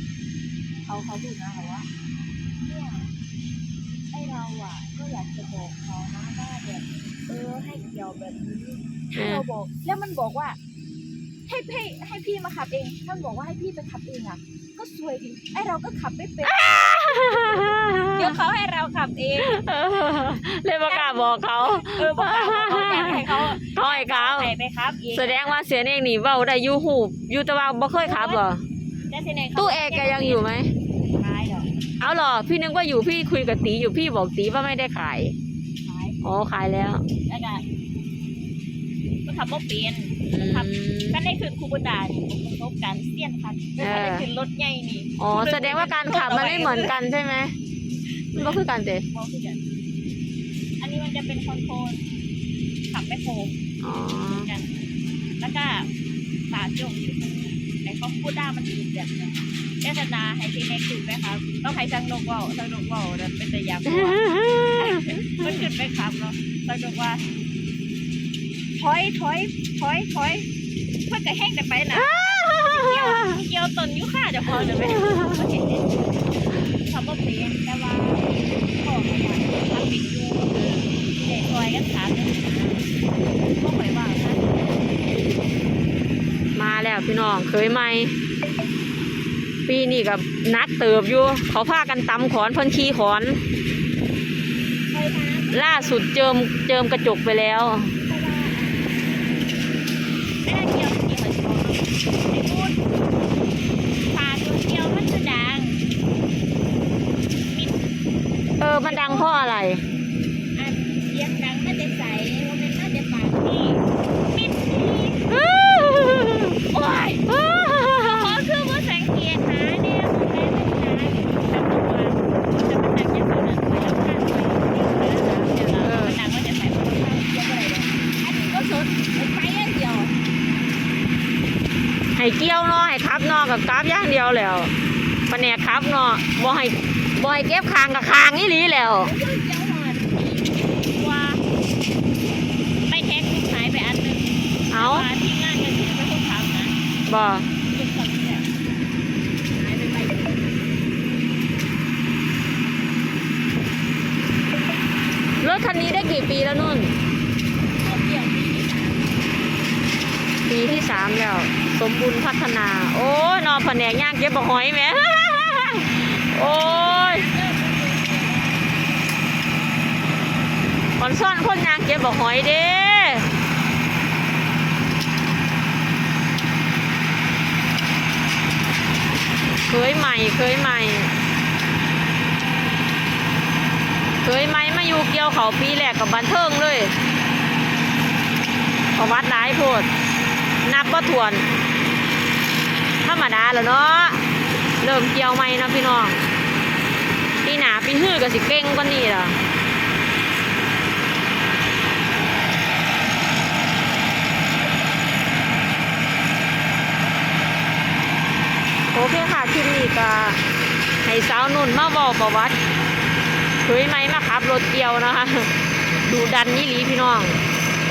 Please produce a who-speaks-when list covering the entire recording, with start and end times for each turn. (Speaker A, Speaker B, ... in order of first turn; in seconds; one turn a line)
Speaker A: 0.8-1.9
Speaker A: 2.6-3.1
Speaker A: 4.1-10.6
Speaker B: 9.2-9.4
Speaker A: 11.5-19.7
Speaker B: 16.4-18.3
Speaker B: 19.4-24.5
Speaker A: 20.9-25.6
Speaker B: 25.1-28.6
Speaker A: 28.0-28.4
Speaker A: 29.1-30.5
Speaker B: 29.6-30.7
Speaker A: 31.1-31.7
Speaker B: 32.0-35.4
Speaker A: 35.8-36.2
Speaker B: 36.2-37.0
Speaker A: 37.3-37.6
Speaker A: 39.2-47.0
Speaker B: 40.3-41.2
Speaker B: 43.8-44.3
Speaker B: 45.2-47.6
Speaker A: 48.3-49.6
Speaker B: 48.4-49.1
Speaker A: 50.8-52.1
Speaker A: 52.9-53.6
Speaker B: 53.8-54.5
Speaker A: 54.3-54.7
Speaker A: 55.4-55.9
Speaker A: 56.5-67.3
Speaker B: 63.9-65.6
Speaker A: 68.8-70.5
Speaker A: 71.1-85.5
Speaker B: 71.9-73.4
Speaker B: 74.8-75.4
Speaker B: 80.5-80.9
Speaker B: 86.5-88.2
Speaker B: 89.7-93.5
Speaker A: 94.9-96.1
Speaker B: 95.5-98.0
Speaker A: 98.0-99.3
Speaker A: 100.4-102.8
Speaker A: 104.1-105.8
Speaker A: 107.5-107.8
Speaker B: 108.6-109.8
Speaker A: 108.8-109.3
Speaker A: 110.5-115.3
Speaker B: 115.3-116.6
Speaker A: 116.7-117.3
Speaker B: 117.3-118.4
Speaker A: 118.0-130.2
Speaker B: 125.8-126.2
Speaker B: 132.2-134.7
Speaker B: 135.3-139.1
Speaker A: 139.0-141.4
Speaker A: 142.9-146.8
Speaker B: 144.7-145.1
Speaker B: 147.1-147.5
Speaker A: 147.7-148.5
Speaker A: 149.5-150.5
Speaker B: 155.4-156.9
Speaker A: 157.8-159.2
Speaker B: 160.4-167.3
Speaker A: 166.4-168.8
Speaker B: 171.0-173.3
Speaker B: 179.7-181.1
Speaker B: 184.2-187.0
Speaker B: 188.9-189.9
Speaker B: 190.6-191.5
Speaker B: 193.0-194.3
Speaker B: 194.8-196.2
Speaker B: 197.4-199.4
Speaker B: 208.9-210.4
Speaker B: 211.0-212.6
Speaker B: 213.6-217.4